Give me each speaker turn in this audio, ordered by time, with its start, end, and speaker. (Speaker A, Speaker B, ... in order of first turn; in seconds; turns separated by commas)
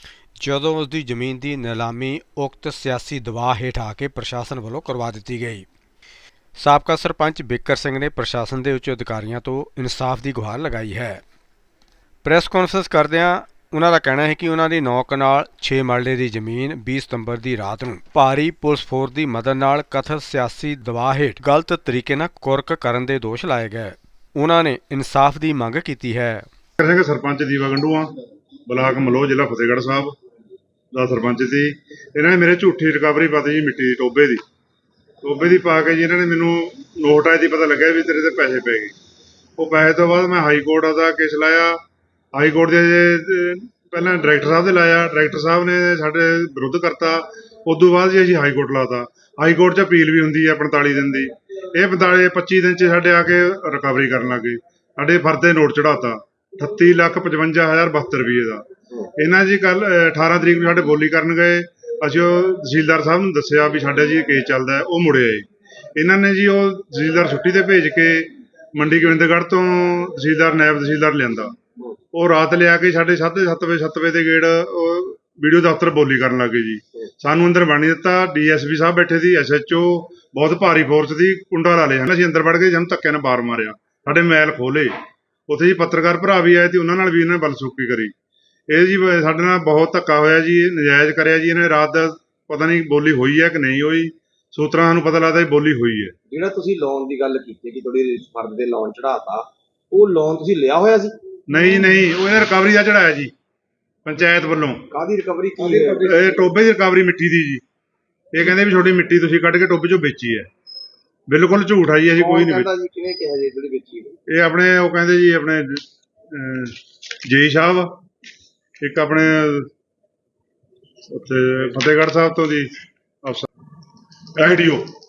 Speaker A: 0.4-5.7, Speaker A: 6.6-11.2, Speaker A: 12.2-26.5, Speaker B: 26.8-28.1, Speaker B: 28.7-30.1, Speaker B: 30.9-34.4, Speaker B: 35.2-38.9, Speaker B: 39.6-41.8, Speaker B: 42.3-71.5, Speaker B: 72.1-84.9, Speaker B: 85.5-88.1, Speaker B: 88.7-96.1, Speaker C: 96.3-101.1, Speaker B: 101.5-103.3, Speaker B: 104.0-104.8, Speaker C: 104.9-106.5, Speaker B: 105.6-107.6, Speaker B: 108.3-110.5, Speaker B: 111.3-112.7, Speaker C: 112.1-114.1, Speaker B: 114.3-118.0, Speaker B: 118.8-119.7, Speaker B: 121.1-123.5, Speaker B: 124.3-124.9